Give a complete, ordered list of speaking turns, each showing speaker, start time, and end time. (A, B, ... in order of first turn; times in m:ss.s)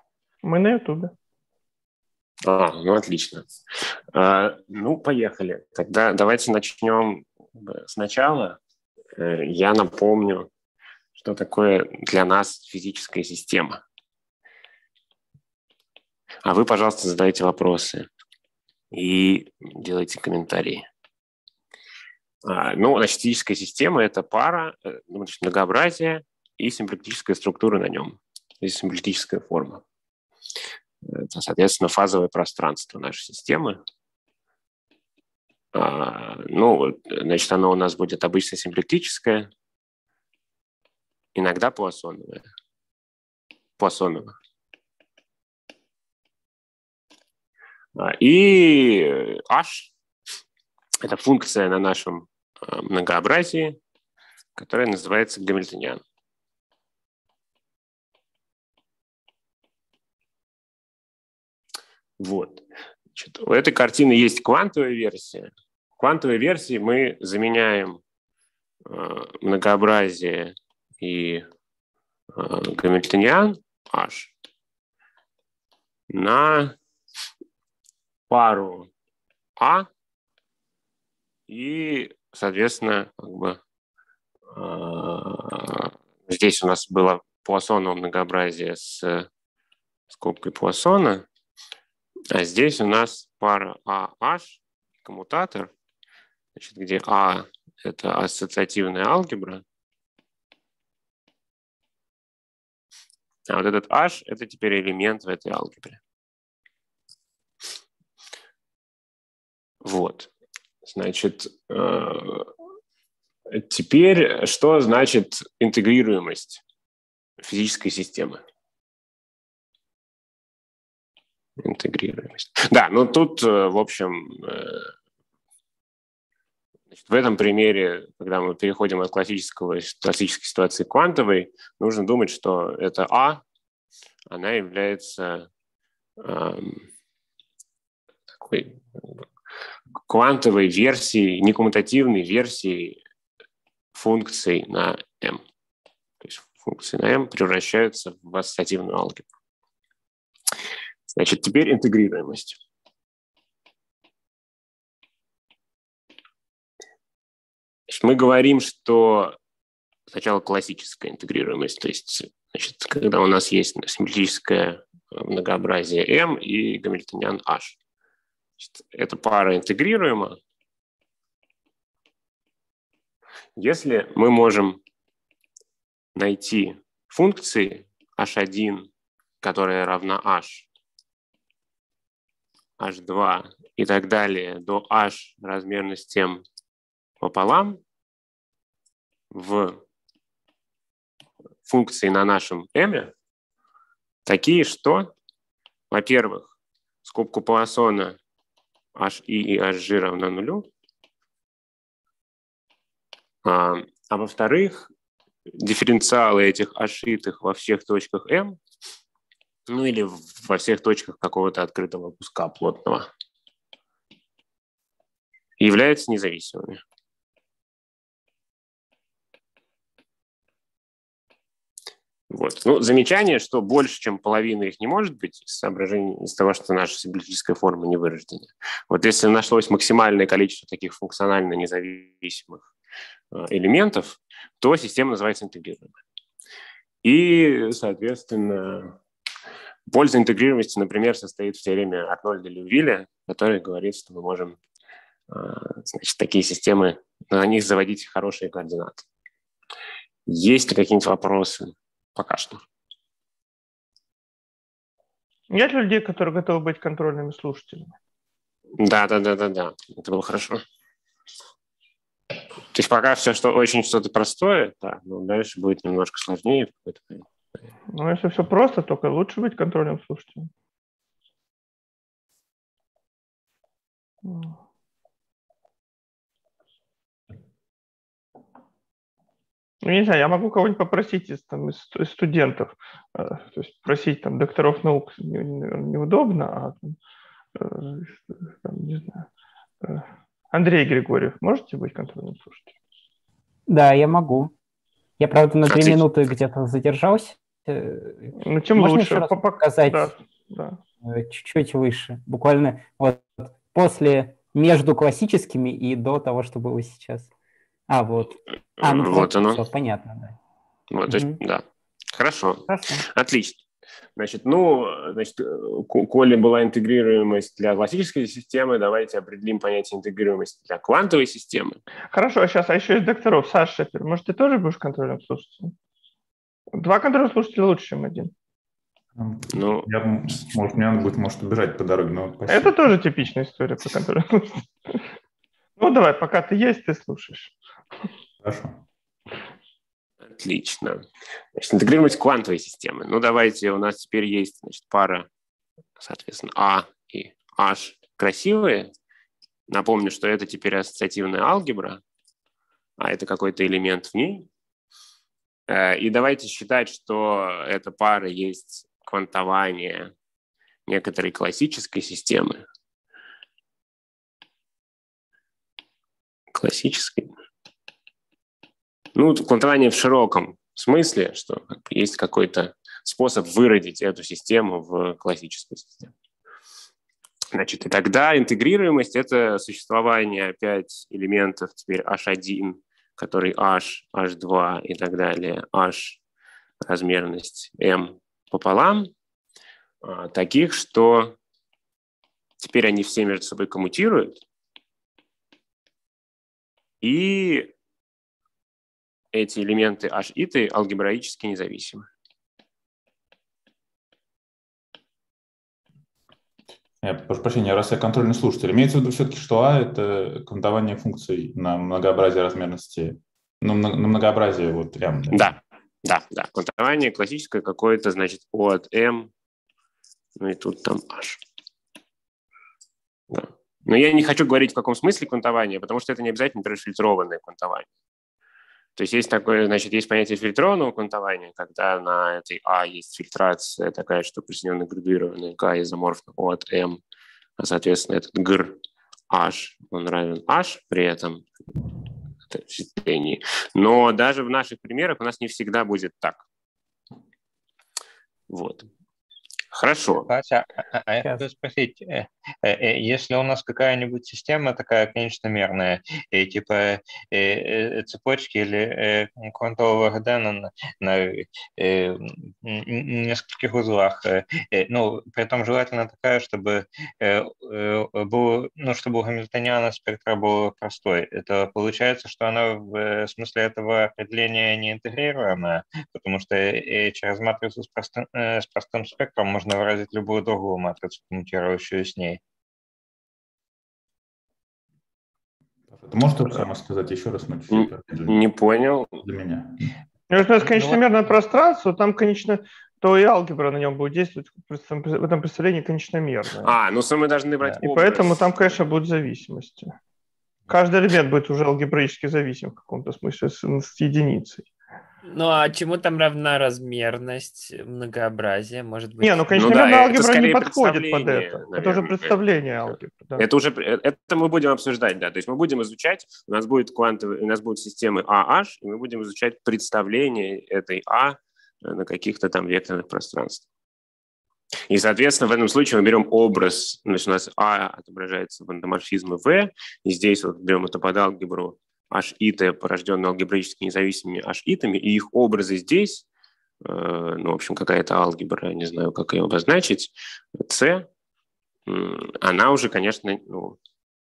0:00.4-0:01.1 A
0:02.4-0:08.6 B
0:09.2-0:10.5 B
0:11.1-0:13.8 B
0:16.4-0:18.1 B
0:18.9-0:20.9 B
0:22.4-0:29.8 B
0:31.0-0:33.8 B
0:35.7-0:39.5 B
0:41.3-0:42.4 B
0:43.8-0:44.3 B
0:48.0-0:49.9 B
0:51.0-0:53.8 B
0:54.6-0:56.0 B
1:02.2-1:08.0 B
1:08.9-1:11.4 B
1:12.3-1:14.3 B
1:16.1-1:16.8 B
1:18.3-1:18.9 B
1:19.6-1:19.9 B
1:21.5-1:23.6 B
1:24.5-1:29.3 B
1:30.1-1:31.2 B
1:32.3-1:35.7 B
1:36.6-1:39.6 B
1:43.5-1:46.0 B
1:49.8-1:50.3 B
1:50.8-1:52.5 B
1:53.5-1:56.6 B
1:57.4-1:58.4 B
2:01.6-2:04.9 B
2:06.9-2:13.4 B
2:14.3-2:15.5 B
2:16.2-2:16.8 B
2:18.4-2:19.2 B
2:20.0-2:23.0 B
2:23.9-2:25.4 B
2:26.2-2:29.3 B
2:31.1-2:32.6 B
2:37.9-2:39.4 B
2:40.1-2:47.8 B
2:48.6-2:50.4 B
2:53.6-2:54.8 B
2:56.2-2:58.9 B
2:59.4-3:00.7 B
3:02.8-3:06.4 B
3:07.2-3:07.8 B
3:09.3-3:09.8 B
3:11.6-3:13.1 B
3:14.2-3:15.1 B
3:15.9-3:18.2 B
3:19.0-3:20.7 B
3:23.4-3:24.9 B
3:25.5-3:28.6 B
3:29.7-3:33.1 B
3:35.6-3:36.8 B
3:42.3-3:52.7 B
3:53.3-3:56.0 B
3:57.0-3:59.0 B
3:59.9-4:04.6 B
4:05.3-4:09.0 B
4:10.3-4:12.6 B
4:15.5-4:17.9 A
4:18.8-4:20.6 B
4:22.7-4:27.2 B
4:27.9-4:30.5 A
4:34.2-4:34.5 A
4:39.8-4:47.0 A
4:47.6-4:49.3 A
4:49.8-4:52.7 A
4:53.7-4:54.5 C
4:55.2-5:00.1 C
4:55.7-4:56.0 B
4:58.4-5:00.8 A
5:01.0-5:07.3 C
5:07.9-5:10.4 C
5:08.8-5:09.6 B
5:10.9-5:11.6 B
5:11.1-5:11.4 C
5:12.1-5:13.6 B
5:12.7-5:13.0 C
5:14.2-5:21.8 B
5:22.1-5:25.7 A
5:26.7-5:28.3 A
5:29.2-5:32.9 D
5:29.5-5:29.9 B
5:32.5-5:35.0 A
5:35.8-5:37.5 A
5:38.4-5:38.8 D
5:40.2-5:41.0 B
5:41.6-5:45.3 B
5:46.0-5:48.9 B
5:49.7-5:52.0 B
5:53.0-5:54.5 B
5:55.7-6:00.1 B
6:00.9-6:02.6 B
6:06.5-6:07.3 B
6:09.1-6:16.1 B
6:17.5-6:26.2 B
6:26.8-6:29.1 B
6:30.0-6:31.4 B
6:32.6-6:34.4 B
6:37.0-6:37.7 B
6:39.3-6:42.1 B
6:47.0-6:55.5 D
6:55.3-6:59.3 B
7:00.4-7:01.4 B
7:03.3-7:07.9 B
7:09.0-7:17.0 B
7:17.6-7:18.8 B
7:19.3-7:21.5 B
7:22.5-7:26.4 B
7:28.5-7:28.9 B
7:29.7-7:30.3 B
7:30.3-8:02.4 E
8:05.9-8:08.4 D
8:07.7-8:09.2 B
8:09.2-8:09.9 D
8:10.3-8:16.8 A
8:10.7-8:11.0 E
8:16.6-8:18.4 B
8:17.8-8:19.9 A
8:20.7-8:24.6 A
8:25.2-8:29.4 F
8:29.2-8:33.4 A
8:29.6-8:32.4 B
8:33.4-8:43.6 B
8:44.9-8:56.2 B
8:56.8-9:01.1 B
9:01.9-9:03.8 B